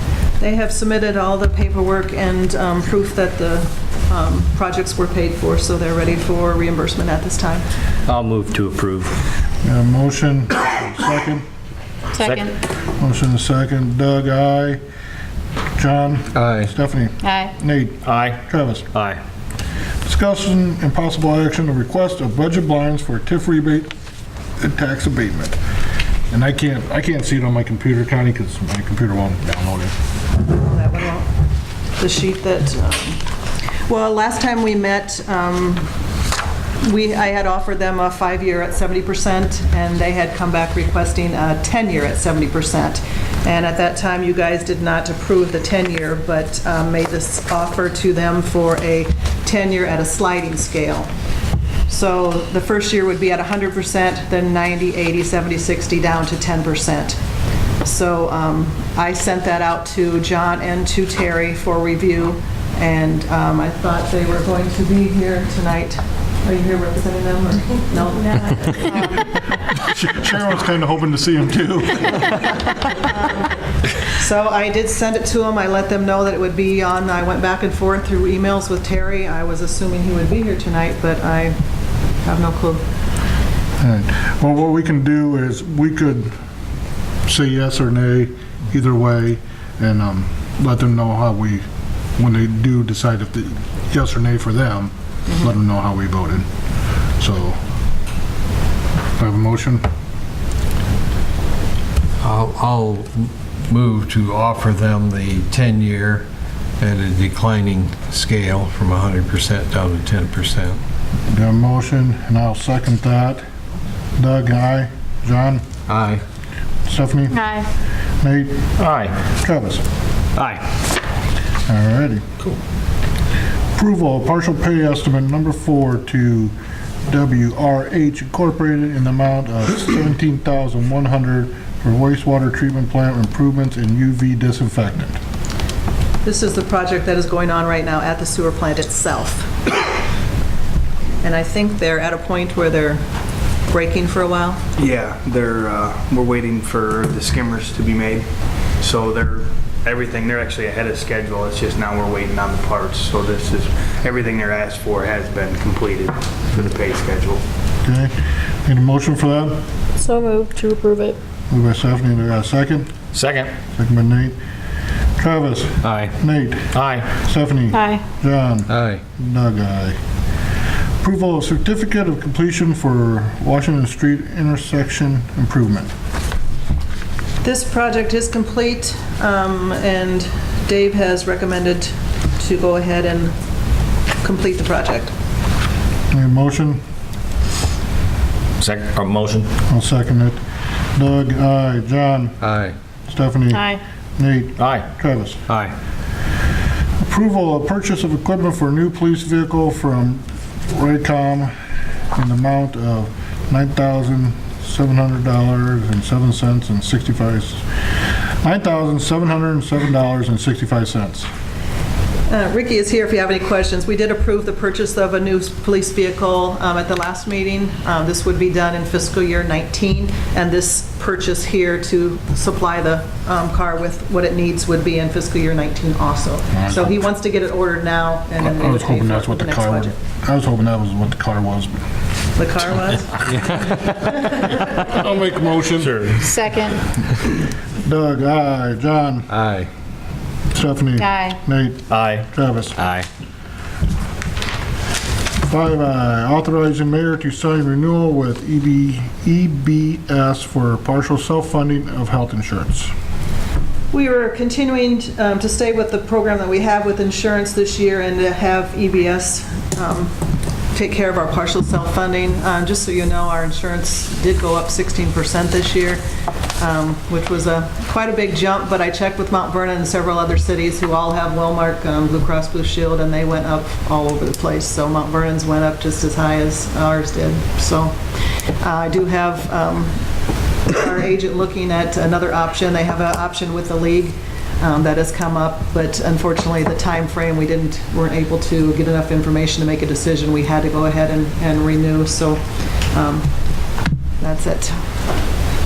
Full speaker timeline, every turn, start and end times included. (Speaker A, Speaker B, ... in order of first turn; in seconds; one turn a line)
Speaker A: 0.4-7.7
Speaker B: 8.1-9.1
Speaker C: 9.6-11.4
Speaker D: 12.2-12.5
Speaker C: 13.0-14.8
Speaker C: 15.8-18.9
Speaker E: 16.3-16.7
Speaker D: 17.2-17.5
Speaker B: 18.0-18.4
Speaker B: 18.9-19.2
Speaker C: 20.0-23.9
Speaker C: 24.6-25.6
Speaker C: 26.3-29.9
Speaker A: 30.5-31.3
Speaker A: 32.0-33.2
Speaker A: 33.9-35.9
Speaker A: 36.8-51.1
Speaker A: 51.9-57.2
Speaker A: 57.8-69.3
Speaker C: 69.7-72.3
Speaker A: 72.9-81.5
Speaker A: 82.2-82.8
Speaker C: 83.8-86.3
Speaker C: 87.2-91.6
Speaker C: 92.2-96.5
Speaker C: 97.2-97.6
Speaker C: 99.2-99.9
Speaker E: 102.2-106.2
Speaker E: 106.8-110.8
Speaker C: 111.3-113.4
Speaker C: 114.2-115.6
Speaker E: 115.9-116.2
Speaker C: 116.9-117.5
Speaker D: 117.3-117.7
Speaker C: 118.2-118.7
Speaker B: 118.8-119.1
Speaker C: 119.3-119.8
Speaker B: 120.4-120.6
Speaker C: 121.7-122.3
Speaker C: 123.8-126.5
Speaker C: 127.1-135.2
Speaker A: 136.2-139.5
Speaker A: 141.2-143.0
Speaker A: 143.7-144.6
Speaker F: 144.8-148.2
Speaker F: 148.8-157.4
Speaker C: 157.8-159.6
Speaker D: 160.0-161.2
Speaker C: 161.5-162.9
Speaker B: 163.1-163.5
Speaker C: 163.7-164.4
Speaker C: 165.2-170.0
Speaker B: 165.8-166.2
Speaker B: 166.7-167.2
Speaker D: 167.7-168.0
Speaker E: 168.7-169.0
Speaker C: 171.0-175.9
Speaker A: 177.4-183.3
Speaker A: 184.2-185.1
Speaker C: 186.1-186.8
Speaker B: 188.6-189.5
Speaker C: 189.7-190.4
Speaker C: 191.0-192.4
Speaker E: 192.4-192.8
Speaker C: 193.1-195.4
Speaker D: 193.5-193.8
Speaker B: 194.6-194.9
Speaker C: 197.0-201.5
Speaker C: 202.1-207.6
Speaker C: 208.4-211.3
Speaker A: 212.3-230.0
Speaker C: 226.6-226.9
Speaker C: 228.4-231.8
Speaker A: 232.4-233.3
Speaker C: 234.8-236.2
Speaker D: 236.2-236.8
Speaker C: 237.8-239.3
Speaker E: 239.3-239.7
Speaker C: 240.5-242.8
Speaker D: 241.0-241.4
Speaker B: 241.9-242.2
Speaker E: 242.8-243.1
Speaker C: 245.5-252.9
Speaker A: 253.9-260.1
Speaker A: 260.7-266.0
Speaker A: 266.6-278.0
Speaker A: 278.6-279.9
Speaker A: 280.6-292.4
Speaker A: 292.9-293.3
Speaker A: 294.2-294.7